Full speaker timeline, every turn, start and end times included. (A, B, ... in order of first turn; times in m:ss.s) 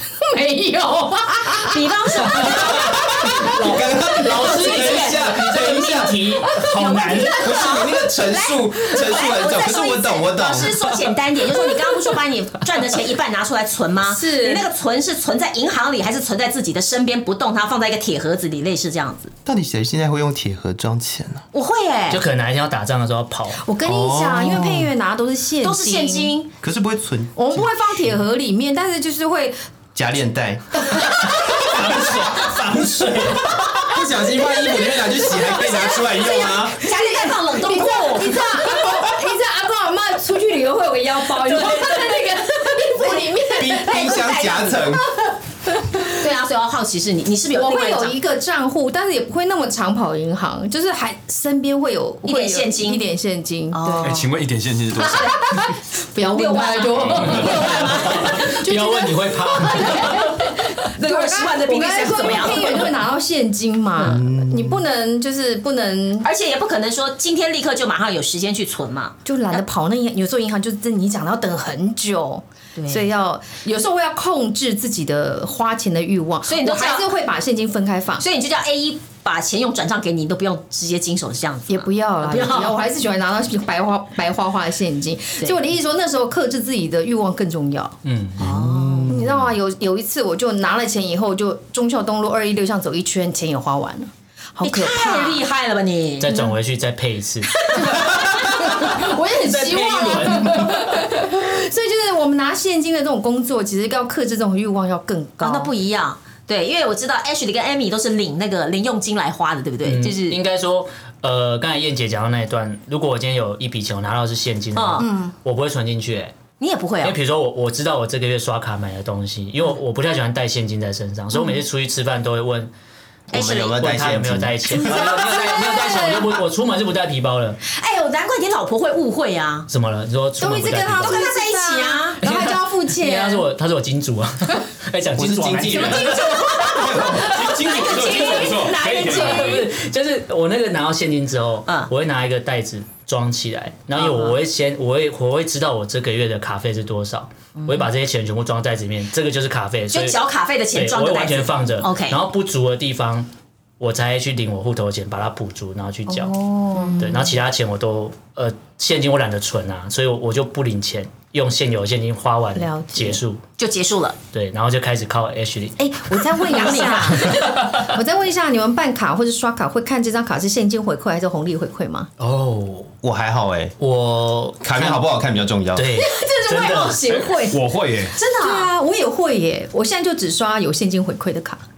0:00.2-0:03.7 A
0:01.3-0:03.0 B
0:02.5-0:07.6 C
0:02.7-0:06.3 D
0:06.6-0:07.9 A
0:06.8-0:19.3 B
0:07.3-0:10.8 D
0:14.0-0:14.7 A
0:19.5-0:21.4 D
0:21.5-0:22.2 B
0:22.1-0:23.6 C
0:23.6-0:26.3 A
0:23.8-0:24.9 D
0:25.6-0:26.5 B
0:26.6-0:27.3 D
0:27.4-0:29.6 A
0:30.0-0:31.5 D
0:30.9-0:31.7 A
0:31.0-0:33.7 C
0:33.8-0:36.8 D
0:34.2-0:46.2 A
0:35.6-0:38.5 B
0:38.7-0:39.1 D
0:41.3-0:42.8 C
0:43.6-0:45.1 D
0:43.7-0:44.8 B
0:46.0-0:48.2 B
0:47.5-0:54.2 A
0:52.2-0:53.0 B
0:53.7-0:54.3 B
0:54.0-0:55.5 E
0:55.0-1:06.3 A
0:56.3-0:58.4 B
0:57.2-0:57.5 E
0:57.3-1:00.6 C
1:01.0-1:02.9 B
1:04.0-1:04.8 D
1:06.2-1:09.6 B
1:09.2-1:18.2 A
1:12.8-1:13.1 B
1:16.4-1:17.1 B
1:18.2-1:22.8 B
1:21.7-1:28.0 A
1:28.0-1:28.5 C
1:28.4-1:29.2 B
1:28.5-1:29.5 D
1:29.1-1:35.4 A
1:34.6-1:36.5 B
1:36.2-1:40.8 C
1:37.6-1:45.7 A
1:45.4-1:50.4 B
1:49.8-1:56.4 C
1:54.8-1:55.1 B
1:55.0-1:55.3 A
1:56.6-1:57.2 B
1:57.0-2:02.7 C
2:01.3-2:01.6 A
2:03.3-2:03.8 B
2:03.3-2:04.9 D
2:03.6-2:07.6 C
2:04.8-2:06.4 A
2:07.6-2:09.7 B
2:09.7-2:11.2 C
2:10.4-2:13.5 A
2:11.0-2:12.2 B
2:12.2-2:17.3 C
2:15.2-2:17.3 D
2:15.8-2:16.8 A
2:16.1-2:16.8 B
2:16.9-2:19.6 E
2:17.6-2:19.7 B
2:19.1-2:30.2 C
2:24.0-2:24.4 B
2:27.6-2:27.9 B
2:29.9-2:32.2 B
2:30.7-2:33.3 C
2:33.8-2:36.3 C
2:36.1-2:37.2 A
2:36.8-2:37.3 B
2:37.0-2:43.4 C
2:42.6-2:43.2 A
2:43.6-2:44.2 B
2:44.3-2:45.8 C
2:45.8-2:52.1 A
2:46.4-2:47.3 B
2:47.2-2:47.9 C
2:52.2-2:52.9 C
2:53.0-2:53.8 D
2:53.8-2:55.0 C
2:54.6-2:55.9 D
2:55.8-2:57.0 C
2:56.0-2:57.6 A
2:57.1-2:58.2 E
2:58.2-2:58.7 B
2:58.2-3:01.6 A